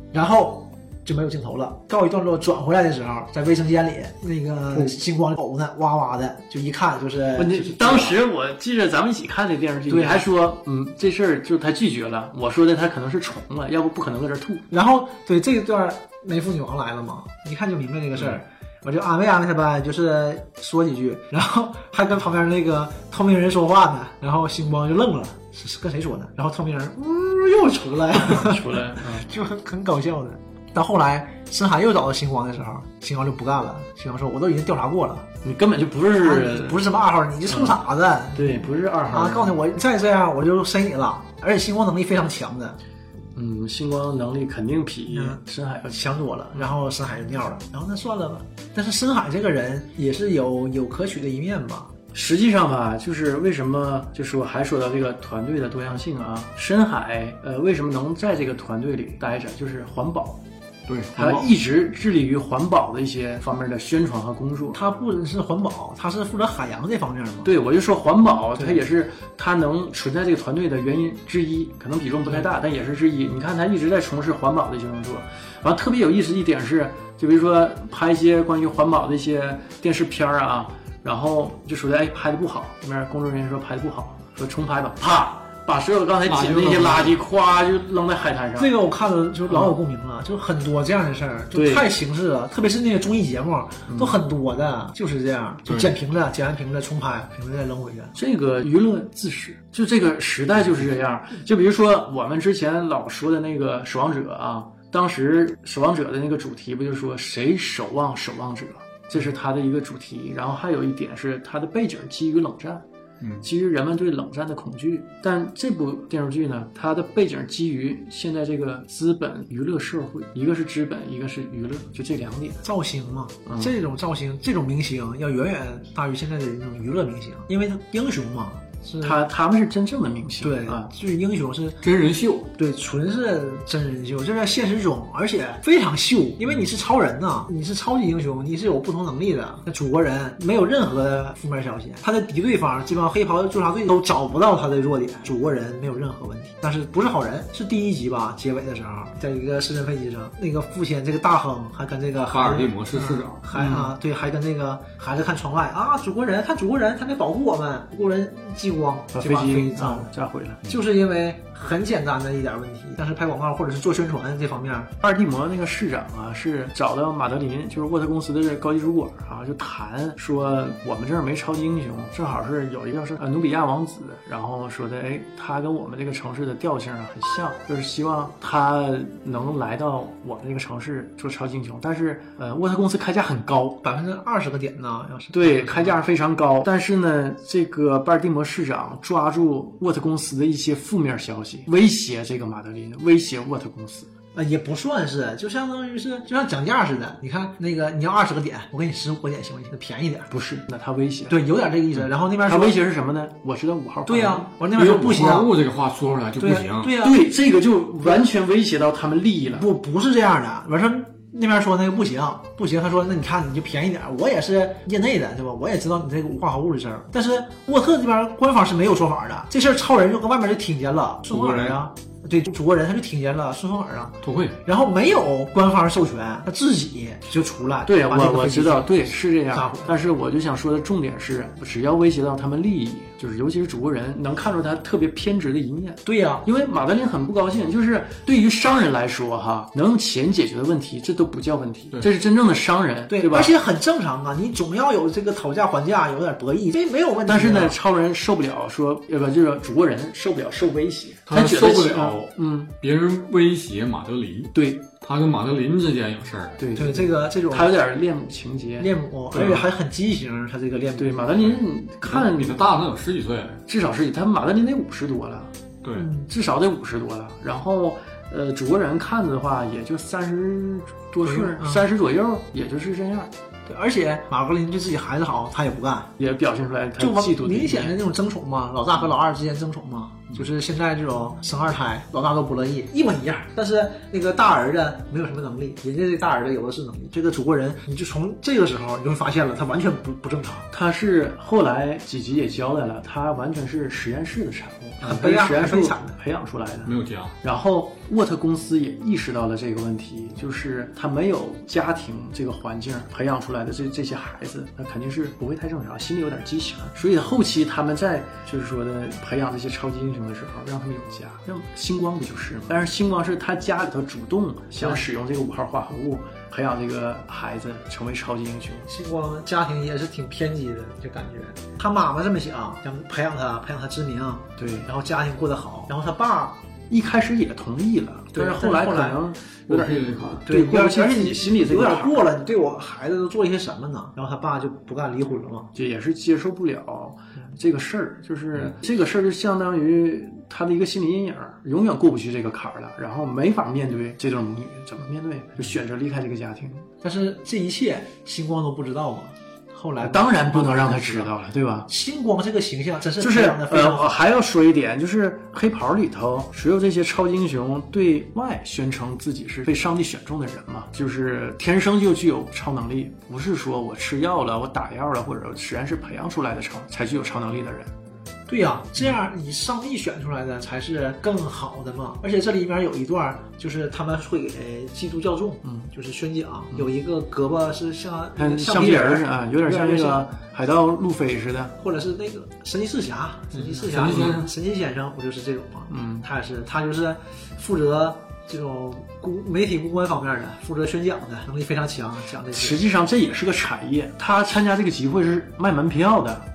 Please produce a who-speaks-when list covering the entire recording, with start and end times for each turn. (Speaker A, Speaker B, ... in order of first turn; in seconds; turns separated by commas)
Speaker A: 0.1-8.2, Speaker B: 7.4-14.7, Speaker A: 9.9-10.3, Speaker A: 14.7-35.3, Speaker B: 28.1-29.3, Speaker B: 35.4-36.9, Speaker A: 36.2-42.8, Speaker B: 37.5-37.8, Speaker B: 38.3-39.6, Speaker B: 43.4-46.7, Speaker A: 45.1-51.9, Speaker B: 52.1-60.4, Speaker C: 60.9-61.5, Speaker B: 61.1-64.8, Speaker A: 64.7-67.5, Speaker B: 67.4-88.7, Speaker A: 68.5-68.8, Speaker C: 86.2-87.2, Speaker A: 88.6-98.1, Speaker B: 89.5-89.8, Speaker B: 91.5-91.9, Speaker B: 93.9-94.2, Speaker B: 98.1-112.8, Speaker C: 113.2-113.5, Speaker B: 113.4-122.6, Speaker A: 122.6-129.2, Speaker B: 123.5-123.7, Speaker B: 129.0-130.9, Speaker A: 130.4-131.8, Speaker C: 131.8-132.5, Speaker A: 132.6-160.1, Speaker C: 152.3-153.4, Speaker B: 153.5-153.9, Speaker B: 159.1-160.6, Speaker A: 160.6-164.9, Speaker B: 165.0-183.8, Speaker A: 183.8-186.0, Speaker B: 185.3-194.1, Speaker A: 194.3-200.3, Speaker B: 200.3-201.4, Speaker A: 201.3-202.8, Speaker B: 202.4-204.5, Speaker A: 204.1-205.5, Speaker C: 204.7-207.0, Speaker A: 206.4-207.2, Speaker B: 207.0-209.7, Speaker A: 209.5-230.0, Speaker C: 221.3-221.8, Speaker C: 224.2-224.6, Speaker B: 227.8-243.5, Speaker A: 236.0-236.4, Speaker A: 243.1-247.8, Speaker B: 247.3-252.7, Speaker C: 251.3-256.6, Speaker B: 254.5-254.8, Speaker B: 256.6-259.6, Speaker A: 256.7-257.7, Speaker A: 258.8-261.4, Speaker B: 261.0-262.6, Speaker C: 262.0-263.6, Speaker B: 263.7-265.5, Speaker C: 265.8-266.1, Speaker A: 265.9-266.2, Speaker B: 266.2-273.3, Speaker A: 271.2-271.8, Speaker A: 273.6-276.1, Speaker B: 276.2-277.9, Speaker A: 277.0-290.7, Speaker B: 290.7-318.9, Speaker A: 295.0-296.1, Speaker C: 296.8-297.4, Speaker A: 314.8-315.1, Speaker A: 318.9-326.6, Speaker B: 324.6-324.9, Speaker B: 326.9-332.3, Speaker A: 328.3-329.2, Speaker C: 329.7-330.4, Speaker A: 330.5-335.7, Speaker B: 335.7-346.9, Speaker A: 347.0-351.3, Speaker B: 350.0-351.9, Speaker A: 351.9-354.2, Speaker B: 353.2-367.9, Speaker A: 368.5-380.2, Speaker B: 375.6-375.9, Speaker B: 378.4-381.7, Speaker A: 381.8-392.8, Speaker C: 383.5-384.5, Speaker B: 385.9-386.2, Speaker B: 392.5-396.5